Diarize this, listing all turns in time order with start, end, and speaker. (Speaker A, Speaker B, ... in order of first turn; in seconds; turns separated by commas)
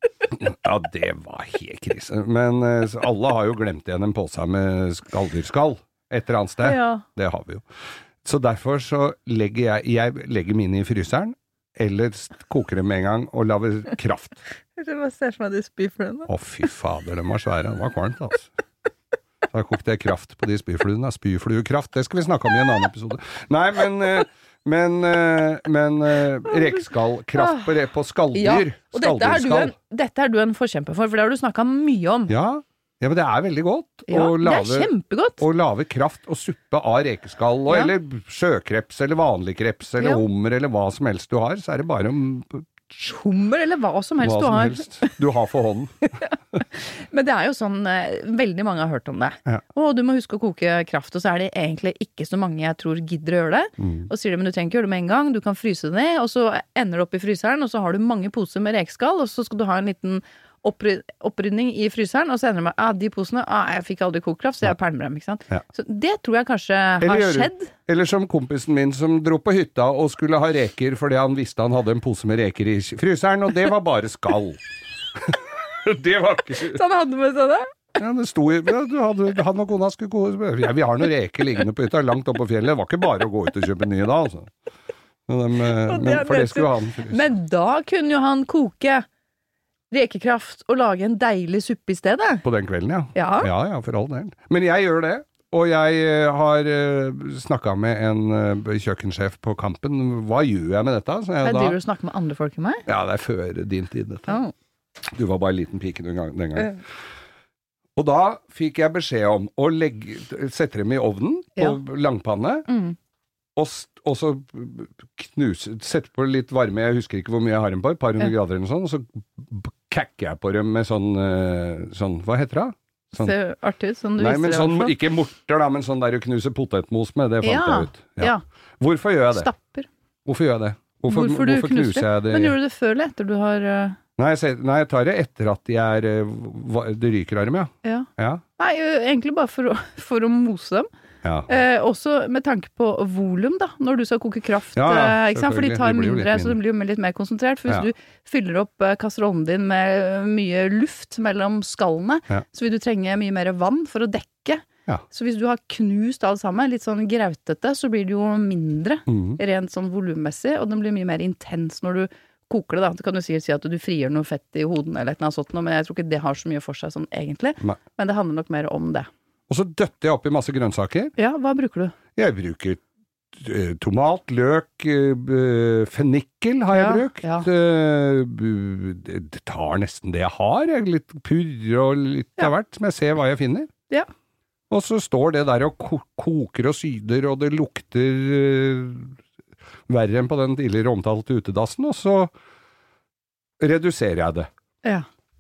Speaker A: 0.3-7.6, Speaker B: 6.6-7.0, Speaker A: 8.2-14.4, Speaker B: 14.8-16.3, Speaker A: 16.3-18.5, Speaker A: 19.5-29.7, Speaker B: 26.5-27.7, Speaker B: 28.3-32.3, Speaker A: 32.3-43.0, Speaker B: 34.1-35.4, Speaker B: 43.0-45.1, Speaker A: 44.2-45.9, Speaker B: 46.2-67.7, Speaker A: 53.8-54.1, Speaker A: 67.0-74.6, Speaker A: 75.1-76.8, Speaker B: 76.7-77.7, Speaker A: 78.0-84.5, Speaker A: 85.3-87.2, Speaker B: 85.8-89.0, Speaker B: 89.9-92.4, Speaker A: 92.4-101.8, Speaker B: 93.1-93.5, Speaker B: 101.4-102.8, Speaker A: 102.9-104.4, Speaker B: 104.3-104.5, Speaker A: 105.1-106.8, Speaker A: 108.0-112.7, Speaker B: 112.7-113.0, Speaker A: 113.5-123.3, Speaker B: 123.1-124.9, Speaker A: 124.2-129.5, Speaker B: 127.4-128.4, Speaker B: 129.3-129.9, Speaker A: 130.2-132.5, Speaker B: 131.1-134.0, Speaker A: 134.2-138.4, Speaker B: 137.8-140.9, Speaker A: 141.2-141.5, Speaker B: 141.5-169.1, Speaker A: 144.7-146.6, Speaker A: 159.1-159.4, Speaker A: 169.5-171.1, Speaker B: 171.2-171.9, Speaker A: 172.2-172.8, Speaker A: 173.3-183.7, Speaker B: 176.7-177.5, Speaker A: 184.7-189.2, Speaker A: 189.9-192.3, Speaker A: 193.6-194.5